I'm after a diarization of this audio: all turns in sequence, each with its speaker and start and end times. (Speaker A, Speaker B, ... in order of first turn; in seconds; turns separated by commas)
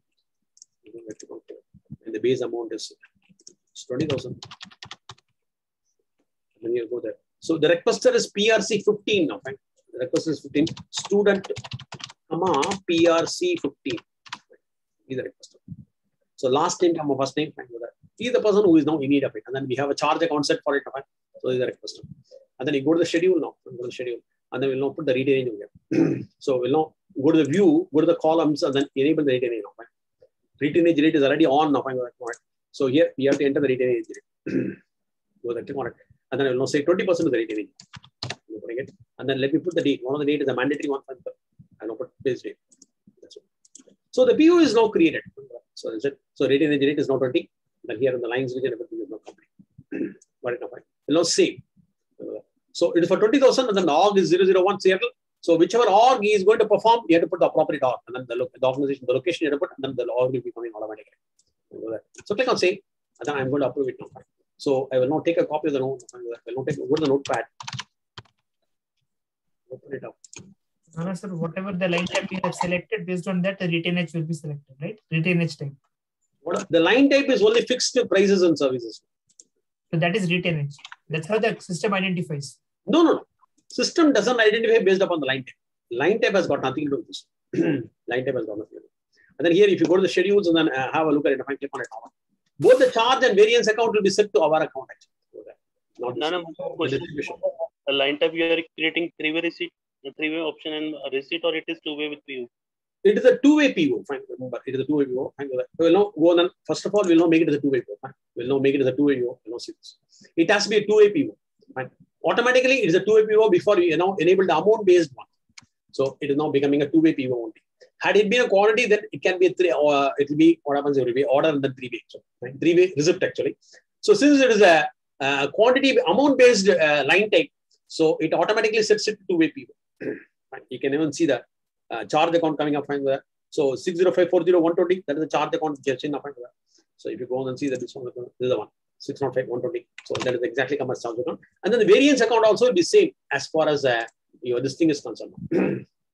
Speaker A: 0.8-3.0, Speaker A: 3.7-4.5, Speaker A: 6.6-11.6, Speaker A: 12.3-14.1, Speaker A: 15.1-15.6, Speaker A: 16.4-29.9, Speaker A: 30.6-34.8, Speaker A: 35.4-37.8, Speaker A: 38.3-42.6, Speaker A: 44.1-51.6, Speaker A: 52.2-61.2, Speaker A: 61.7-67.8, Speaker A: 69.7-70.2, Speaker B: 70.9-75.8, Speaker A: 76.5-79.0, Speaker B: 79.9-82.5, Speaker A: 82.9-88.9, Speaker A: 89.4-92.1, Speaker A: 92.6-97.4, Speaker C: 96.2-102.5, Speaker A: 103.0-115.3, Speaker A: 115.9-145.9